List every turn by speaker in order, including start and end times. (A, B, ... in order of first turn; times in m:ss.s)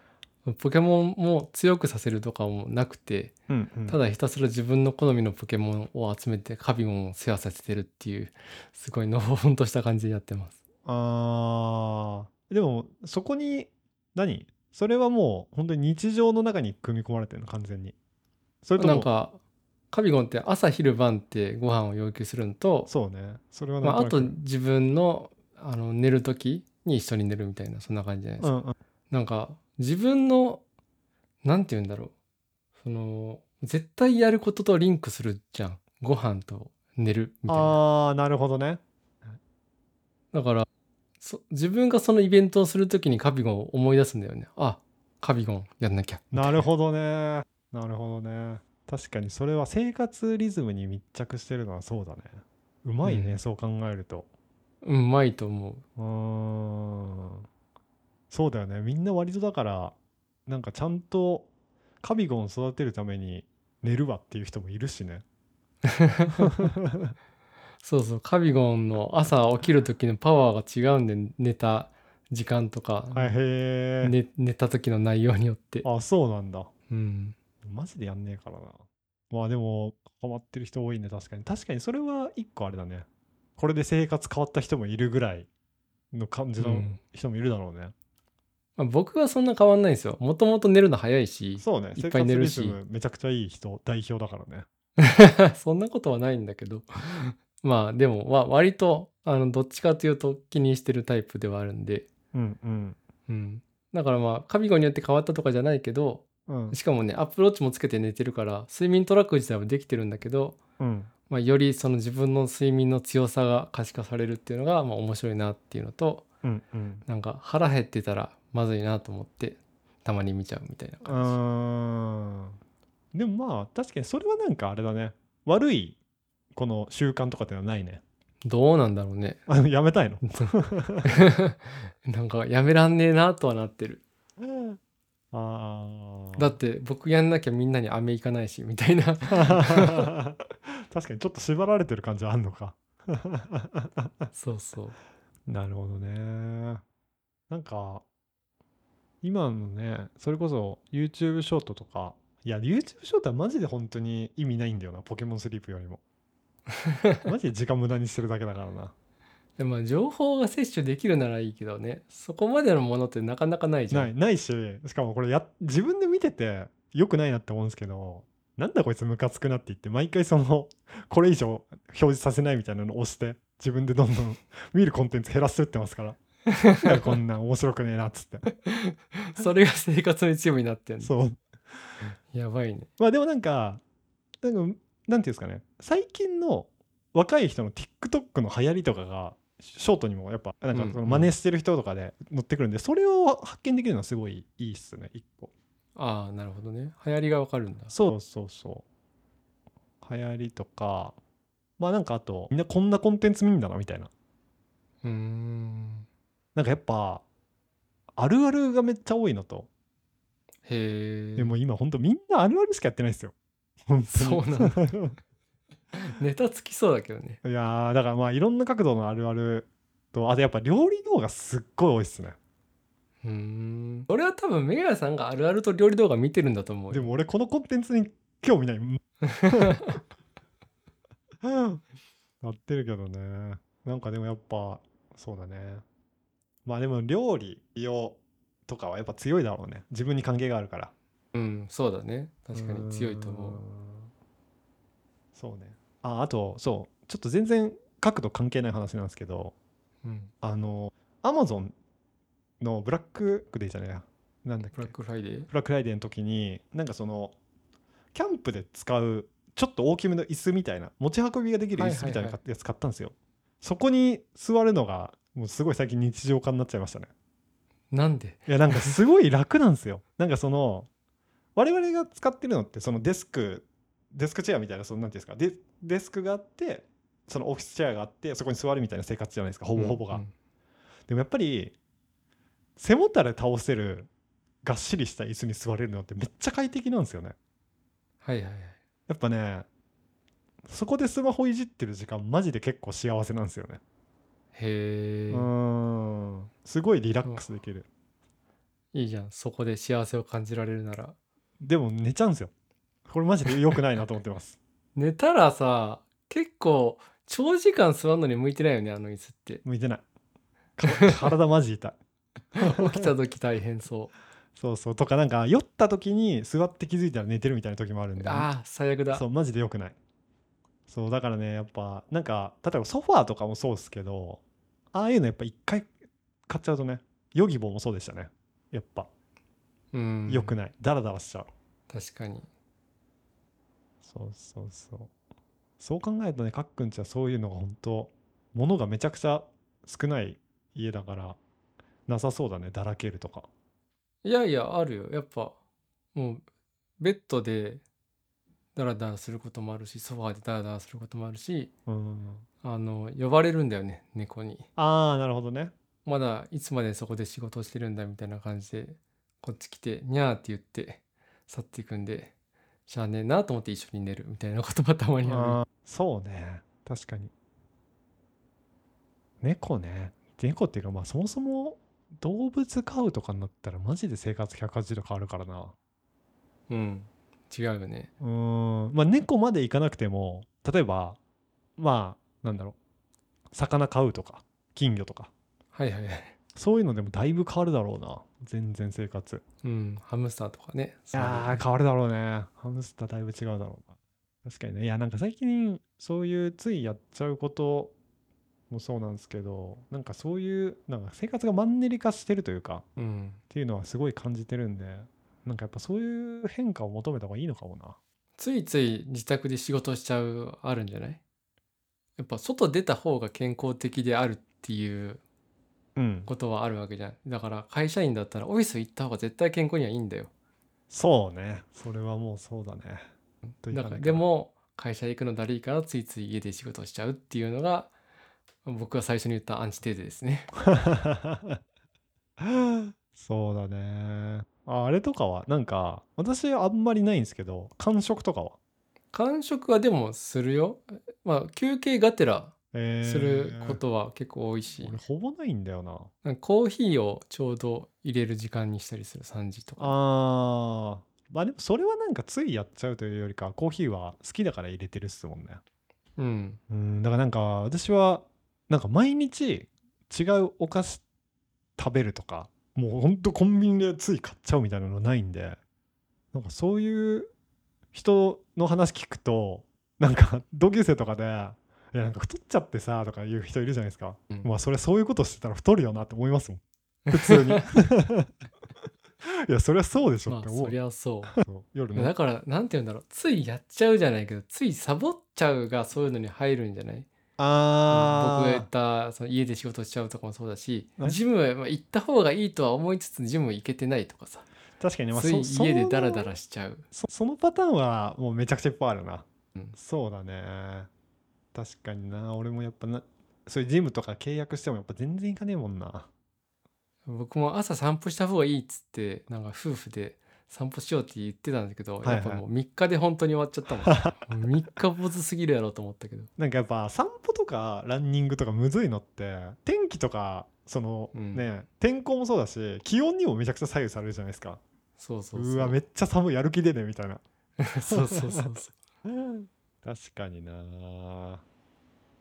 0:00.4-0:03.3 A
0:03.5-0:04.0 B
0:03.9-0:10.6 A
0:10.8-0:17.9 B
0:18.6-0:19.1 B
0:18.8-0:19.4 A
0:19.9-0:22.9 A
0:22.9-0:24.3 B
0:23.8-0:28.5 A
0:28.4-0:28.7 B
0:29.1-0:30.6 A
0:31.4-0:32.1 A
0:32.8-0:37.8 A
0:37.5-0:39.3 B
0:40.3-0:40.7 A
0:41.2-0:46.6 A
0:46.3-0:54.3 B
0:53.0-0:53.4 A
0:54.8-0:55.8 A
0:56.0-0:57.4 B
0:58.3-0:59.9 B
1:00.5-1:01.5 B
1:02.0-1:05.2 B
1:05.8-1:06.7 A
1:06.6-1:07.1 B
1:07.8-1:13.4 A
1:13.1-1:14.2 B
1:14.0-1:15.8 A
1:15.8-1:16.7 B
1:16.9-1:17.4 A
1:17.6-1:23.0 B
1:23.6-1:25.5 B
1:26.1-1:27.9 B
1:26.6-1:27.0 A
1:28.8-1:32.8 A
1:31.6-1:34.6 B
1:35.0-1:42.1 A
1:42.3-1:43.0 B
1:43.3-1:50.6 A
1:46.5-1:46.8 B
1:50.8-1:51.1 B
1:51.3-1:56.2 A
1:56.4-1:57.0 B
1:57.0-2:01.4 A
2:01.0-2:02.6 B
2:03.1-2:06.0 B
2:06.5-2:08.0 B
2:08.4-2:09.4 A
2:09.5-2:11.1 B
2:10.2-2:14.0 A
2:14.4-2:14.8 B
2:15.3-2:16.5 B
2:16.4-2:20.1 A
2:19.4-2:24.3 B
2:24.3-2:25.0 A
2:25.5-2:26.8 B
2:27.5-2:28.0 B
2:29.2-2:36.0 B
2:36.9-2:37.2 A
2:37.2-2:38.9 B
2:39.6-2:44.1 A
2:43.9-2:56.2 B
2:56.5-2:57.1 A
2:56.7-2:58.5 B
2:58.6-3:01.1 A
3:01.0-3:02.0 B
3:02.3-3:02.9 A
3:03.0-3:03.8 B
3:04.4-3:15.5 B
3:10.7-3:11.3 A
3:16.0-3:17.9 A
3:17.9-3:18.8 B
3:20.0-3:21.2 B
3:21.8-3:24.1 B
3:25.0-3:26.0 A
3:26.5-3:27.2 B
3:28.2-3:29.7 B
3:30.6-3:31.5 A
3:31.4-3:33.3 B
3:33.9-3:35.2 B
3:34.1-3:34.8 A
3:35.9-3:37.4 A
3:37.4-3:42.4 B
3:43.2-3:47.1 A
3:46.9-3:50.0 B
3:49.4-3:49.9 A
3:51.4-3:51.8 B
3:52.4-3:55.8 B
3:56.6-4:00.9 B
4:01.3-4:03.6 A
4:02.5-4:04.1 B
4:05.3-4:09.5 B
4:10.0-4:10.3 A
4:10.4-4:11.7 B
4:12.6-4:14.9 B
4:14.7-4:15.5 A
4:15.5-4:17.3 B
4:18.1-4:27.1 B
4:21.7-4:22.4 A
4:27.9-4:29.0 A
4:28.5-4:30.9 B
4:31.6-4:40.2 B
4:39.7-4:40.3 A
4:41.1-4:41.7 B
4:42.8-4:44.1 B
4:44.6-4:47.3 B
4:48.2-4:48.8 A
4:49.1-4:49.6 B
4:50.6-4:53.8 B
4:54.5-4:55.5 A
4:55.3-4:57.9 B
4:58.9-5:01.2 A
5:01.6-5:02.5 B
5:03.1-5:04.6 B
5:04.9-5:09.6 A
5:09.6-5:10.0 B
5:10.8-5:12.0 B
5:10.8-5:11.2 A
5:12.6-5:14.1 A
5:12.6-5:13.0 B
5:14.6-5:18.5 B
5:18.2-5:19.2 A
5:19.1-5:20.0 B
5:20.9-5:24.4 B
5:24.9-5:25.9 B
5:26.5-5:29.1 B
5:29.9-5:30.5 A
5:30.3-5:31.5 B
5:31.9-5:32.5 A
5:34.0-5:35.1 B
5:35.8-5:41.4 B
5:42.1-5:43.5 B
5:44.2-5:45.6 A
5:46.1-5:46.4 A
5:47.0-5:47.8 A
5:48.8-5:51.7 A
5:51.9-5:52.4 B
5:52.6-5:54.7 A
5:54.8-5:55.7 B
5:56.0-6:02.3 A
6:02.9-6:05.6 A
6:05.2-6:07.3 B
6:09.4-6:15.7 B
6:16.7-6:18.1 A
6:18.2-6:21.2 B
6:21.8-6:22.8 B
6:23.5-6:25.3 B
6:25.7-6:26.3 A
6:26.5-6:29.4 B
6:29.6-6:31.6 A
6:31.1-6:33.9 B
6:34.4-6:37.9 B
6:38.7-6:42.8 B
6:43.0-6:43.4 A
6:43.5-6:48.0 B
6:48.4-6:51.2 A
6:52.2-6:55.2 A
6:56.0-6:56.3 B
6:56.3-7:00.3 A
7:00.9-7:03.1 B
7:03.6-7:04.2 B
7:03.7-7:07.9 A
7:08.6-7:10.5 A
7:10.6-7:11.6 B
7:12.4-7:18.6 B
7:19.1-7:25.0 A
7:22.7-7:23.8 B
7:24.8-7:26.1 B
7:26.2-7:30.0 A
7:29.8-7:35.6 B
7:36.2-7:36.6 A
7:36.7-7:41.0 B
7:41.8-7:45.6 B
7:46.3-7:47.3 B
7:47.9-7:58.3 B
7:57.1-7:57.6 A
7:59.5-8:00.7 B
8:00.2-8:01.4 A
8:01.4-8:02.1 B
8:01.9-8:07.1 A
8:07.4-8:08.7 B
8:07.9-8:14.4 A
8:14.8-8:16.3 B
8:15.1-8:16.9 A
8:16.9-8:20.9 B
8:21.5-8:26.1 B
8:27.0-8:36.3 A
8:32.0-8:32.4 B
8:33.9-8:34.2 B
8:36.4-8:44.6 B
8:41.1-8:41.5 A
8:45.0-8:45.8 A
8:45.3-8:47.2 B
8:47.6-8:48.7 A
8:47.9-8:48.4 B
8:49.0-8:51.4 B